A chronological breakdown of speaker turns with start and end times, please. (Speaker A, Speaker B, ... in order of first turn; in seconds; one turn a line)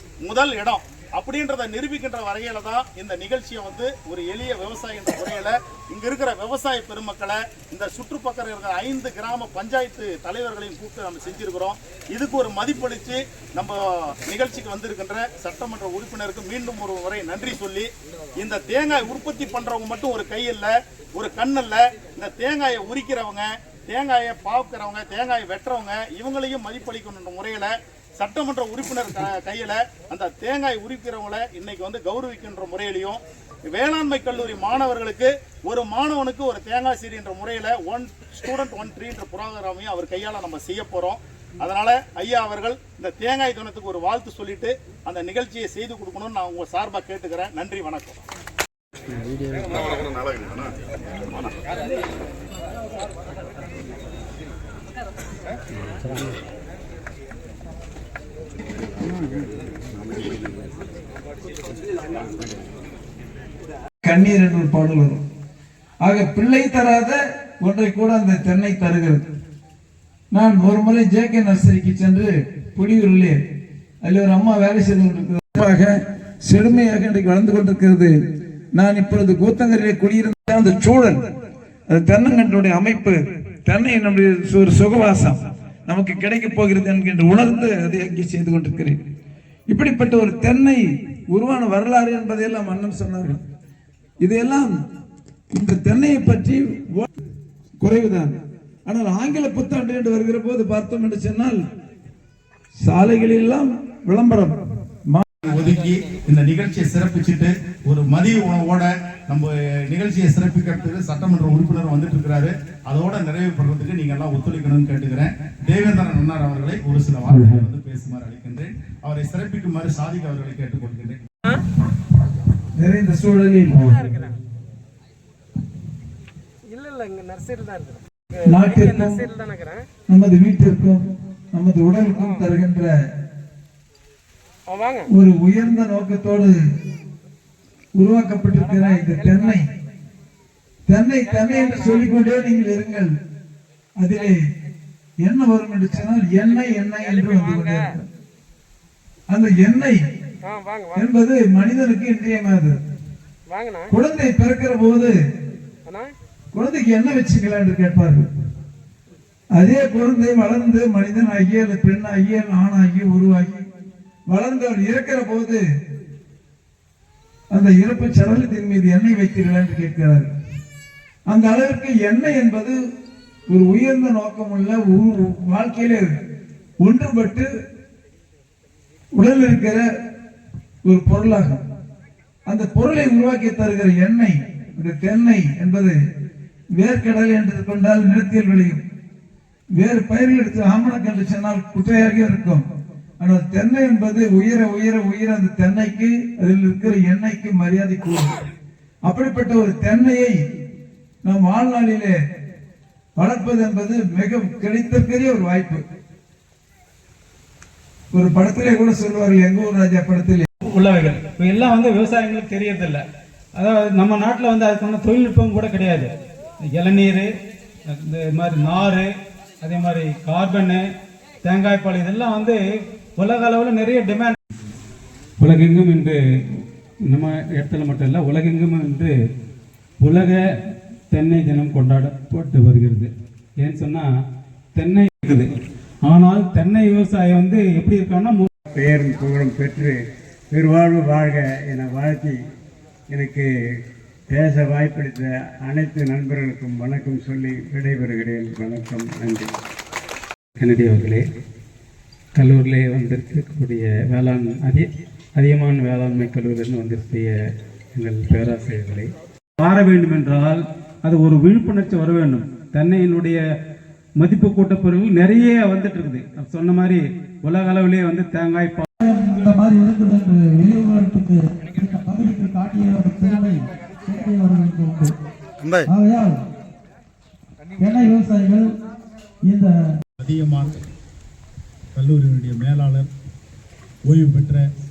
Speaker A: 0.2-48.2
Speaker A: 49.7-50.7
Speaker B: 64.0-65.2
Speaker B: 66.0-69.2
Speaker B: 70.3-73.4
Speaker B: 74.0-78.1
Speaker B: 78.8-81.2
Speaker B: 81.9-89.0
Speaker B: 89.7-93.4
Speaker B: 94.2-94.7
Speaker B: 95.5-97.1
Speaker B: 97.8-98.3
Speaker B: 98.9-101.6
Speaker B: 102.8-104.6
Speaker A: 105.4-121.2
Speaker C: 117.3-117.6
Speaker B: 122.8-123.8
Speaker D: 123.9-124.4
Speaker D: 126.7-128.0
Speaker B: 128.5-129.2
Speaker D: 128.6-129.8
Speaker B: 130.1-132.9
Speaker D: 134.7-135.1
Speaker B: 135.1-136.6
Speaker B: 137.9-139.6
Speaker D: 138.7-139.3
Speaker B: 140.9-143.1
Speaker D: 141.4-142.0
Speaker B: 144.0-144.4
Speaker B: 145.2-148.1
Speaker D: 147.2-147.7
Speaker B: 149.3-150.0
Speaker D: 150.4-151.0
Speaker B: 150.9-152.8
Speaker D: 153.5-153.9
Speaker B: 153.9-155.1
Speaker D: 155.9-156.1
Speaker B: 156.5-158.3
Speaker B: 159.6-163.6
Speaker B: 164.3-165.6
Speaker B: 167.5-170.3
Speaker B: 171.3-172.8
Speaker B: 173.5-176.1
Speaker B: 176.8-177.5
Speaker B: 179.2-179.9
Speaker B: 180.9-181.6
Speaker B: 182.5-186.0
Speaker B: 186.8-188.8
Speaker B: 189.8-192.6
Speaker B: 193.2-198.3
Speaker B: 199.1-200.4
Speaker B: 201.2-202.2
Speaker B: 203.2-205.8
Speaker B: 208.1-210.5
Speaker C: 210.7-213.0
Speaker C: 213.6-216.1
Speaker C: 216.7-217.3
Speaker C: 217.9-219.1
Speaker C: 219.6-220.8
Speaker C: 221.4-222.6
Speaker C: 223.2-224.4
Speaker C: 225.4-226.2
Speaker C: 227.1-229.1
Speaker C: 230.0-230.4
Speaker C: 231.1-233.1
Speaker C: 233.6-234.1
Speaker C: 234.8-235.5
Speaker C: 236.0-238.5
Speaker E: 238.7-242.4
Speaker E: 243.1-243.5
Speaker E: 244.3-249.5
Speaker C: 250.6-251.2
Speaker C: 252.3-257.3
Speaker C: 257.9-263.4
Speaker C: 264.2-268.9
Speaker B: 269.0-275.1
Speaker A: 275.6-275.9
Speaker B: 275.9-276.4
Speaker B: 277.8-278.6
Speaker B: 279.4-279.7
Speaker A: 280.2-280.8
Speaker A: 281.9-283.1
Speaker A: 284.1-284.6